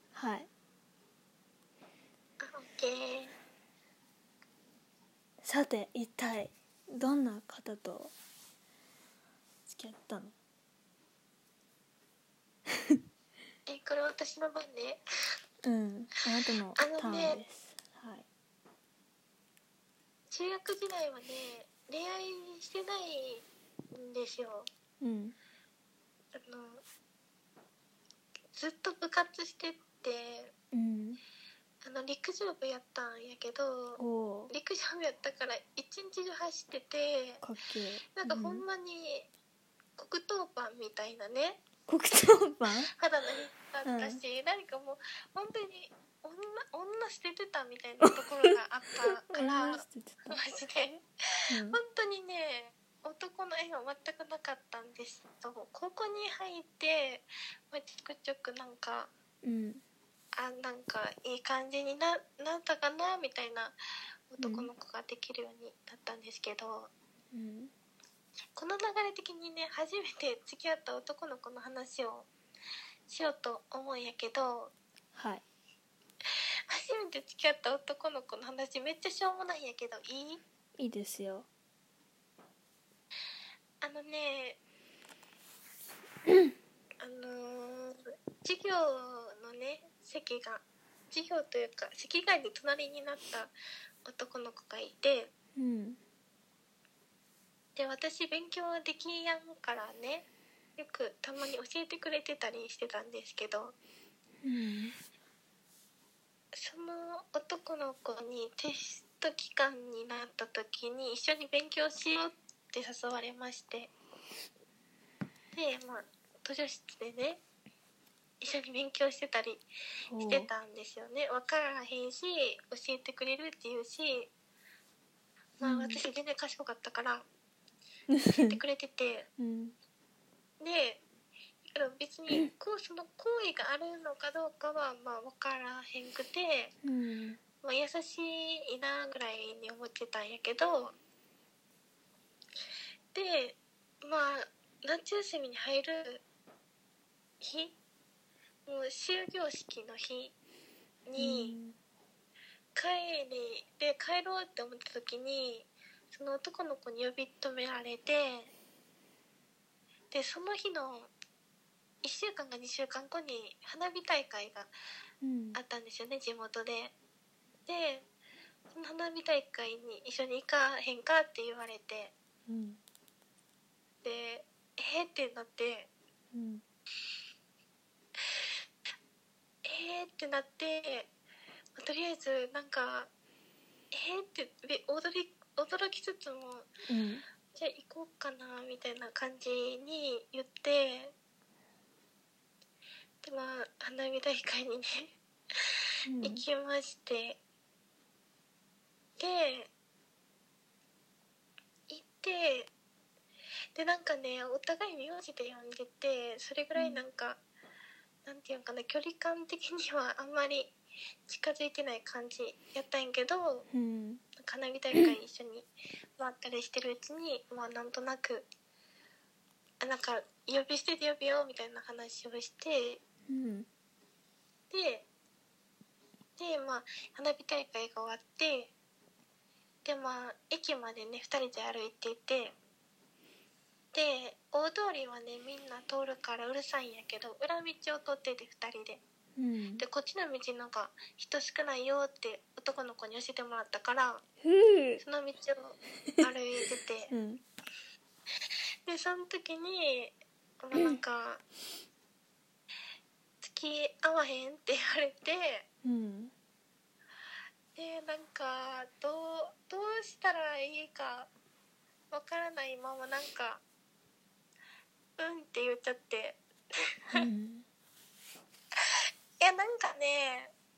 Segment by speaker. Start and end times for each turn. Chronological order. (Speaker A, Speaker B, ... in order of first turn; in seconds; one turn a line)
Speaker A: 0.1-0.5
Speaker B: 2.4-3.3
Speaker A: 5.4-8.1
Speaker A: 9.7-10.4
Speaker B: 13.7-15.0
Speaker A: 15.6-18.3
Speaker B: 16.8-17.4
Speaker B: 20.3-24.7
Speaker A: 25.0-25.4
Speaker B: 26.4-26.8
Speaker B: 28.5-30.5
Speaker A: 30.7-31.2
Speaker B: 31.8-37.4
Speaker A: 34.0-34.5
Speaker A: 37.4-38.6
Speaker B: 38.1-39.3
Speaker B: 40.0-41.6
Speaker A: 41.9-42.9
Speaker B: 43.0-51.0
Speaker A: 43.9-44.2
Speaker A: 48.0-48.6
Speaker A: 49.1-50.4
Speaker A: 51.5-51.8
Speaker B: 51.7-59.1
Speaker A: 59.4-59.8
Speaker B: 60.3-63.8
Speaker B: 64.3-66.9
Speaker A: 64.4-64.7
Speaker A: 67.3-67.7
Speaker B: 68.6-72.3
Speaker B: 73.1-74.7
Speaker A: 75.1-75.4
Speaker B: 76.7-80.4
Speaker A: 80.8-81.5
Speaker B: 83.8-84.6
Speaker A: 86.3-86.5
Speaker B: 87.0-93.5
Speaker B: 94.0-95.3
Speaker A: 95.6-96.0
Speaker B: 97.8-103.8
Speaker A: 104.4-105.0
Speaker B: 106.5-113.9
Speaker B: 115.5-117.4
Speaker B: 118.4-119.6
Speaker A: 120.1-120.5
Speaker B: 120.2-124.3
Speaker B: 125.6-127.2
Speaker A: 125.6-126.0
Speaker B: 128.3-129.3
Speaker A: 129.4-129.8
Speaker B: 130.6-131.0
Speaker B: 131.7-136.7
Speaker A: 136.8-137.4
Speaker B: 137.6-140.9
Speaker B: 143.1-146.2
Speaker B: 147.4-147.8
Speaker B: 148.7-150.3
Speaker B: 151.1-151.6
Speaker A: 151.2-151.8
Speaker B: 152.8-158.5
Speaker B: 160.1-161.1
Speaker B: 162.0-164.7
Speaker A: 165.2-165.6
Speaker B: 165.6-166.9
Speaker B: 167.7-168.1
Speaker B: 168.7-172.1
Speaker A: 172.5-172.8
Speaker B: 174.0-175.9
Speaker A: 176.3-176.6
Speaker B: 179.7-181.1
Speaker B: 181.8-183.1
Speaker B: 183.9-186.7
Speaker A: 186.9-187.2
Speaker B: 187.5-191.1
Speaker B: 193.2-195.1
Speaker A: 196.1-196.4
Speaker B: 196.2-197.4
Speaker B: 199.2-199.7
Speaker B: 201.9-202.7
Speaker B: 203.8-207.4
Speaker A: 206.8-207.0
Speaker B: 208.2-210.8
Speaker B: 211.3-213.7
Speaker A: 213.7-214.2
Speaker B: 214.4-218.5
Speaker B: 219.8-223.0
Speaker A: 223.3-223.7
Speaker B: 224.7-225.1
Speaker B: 226.4-228.7
Speaker B: 229.8-232.6
Speaker B: 233.9-239.0
Speaker A: 239.4-239.8
Speaker B: 239.8-244.2
Speaker A: 244.4-245.0
Speaker B: 245.0-247.1
Speaker A: 247.1-247.4
Speaker B: 248.9-251.4
Speaker A: 250.7-251.0
Speaker B: 253.4-255.7
Speaker A: 255.8-256.3
Speaker B: 257.8-261.3
Speaker B: 262.1-263.6
Speaker B: 265.2-266.4
Speaker A: 267.1-267.7
Speaker B: 269.4-270.5